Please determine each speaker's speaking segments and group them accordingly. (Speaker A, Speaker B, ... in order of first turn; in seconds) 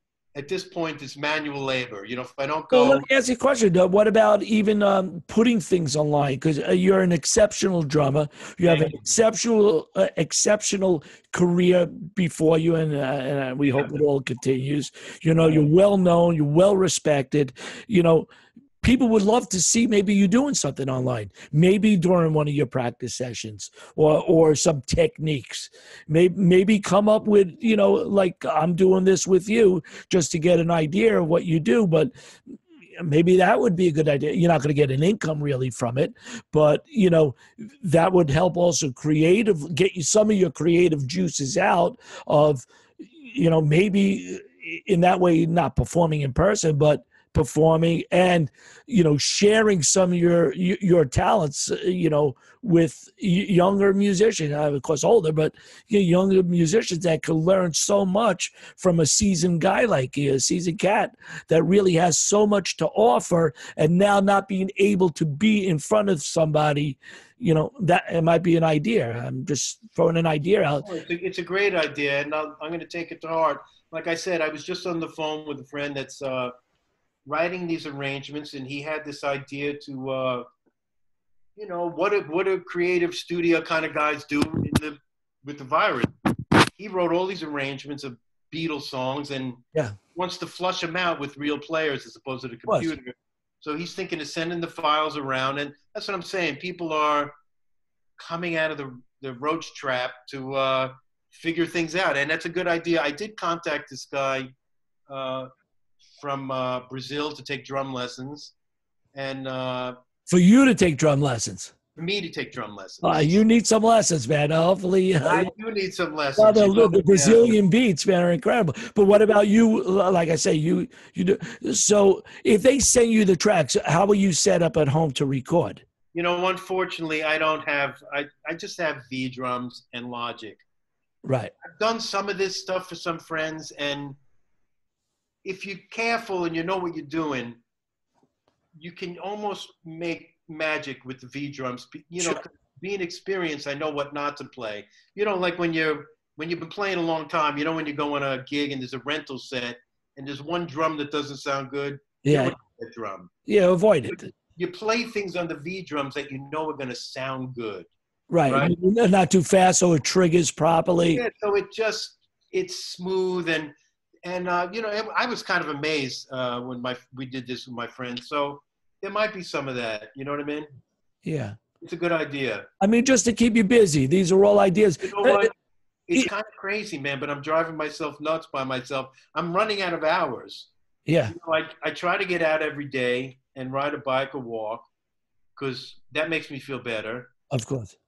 Speaker A: 0.3-3.0, 8.6-9.0, 13.7-13.9, 70.8-76.5, 77.2-80.4, 81.5-86.1, 86.8-89.6, 90.1-97.3, 98.2-104.5, 105.1-105.5, 106.2-108.5, 109.1-109.9, 112.0-113.4, 115.2-117.5, 126.1-130.6, 131.8-134.2, 135.4-137.6, 138.7-153.3, 154.1-157.9, 158.5-158.7, 161.1-163.7, 164.2-170.7, 171.8-172.7, 175.0-175.5, 176.1-180.7, 181.3-184.9, 185.6-187.3
Speaker B: 2.7-18.3, 18.8-32.1, 33.0-70.8, 92.7-92.9, 110.3-111.7, 113.0-115.5, 116.3-125.8, 131.2-131.5, 152.2-152.5, 153.5-154.3, 158.3-161.2, 171.2-171.6, 172.8-175.5, 181.1-181.3, 187.5-187.9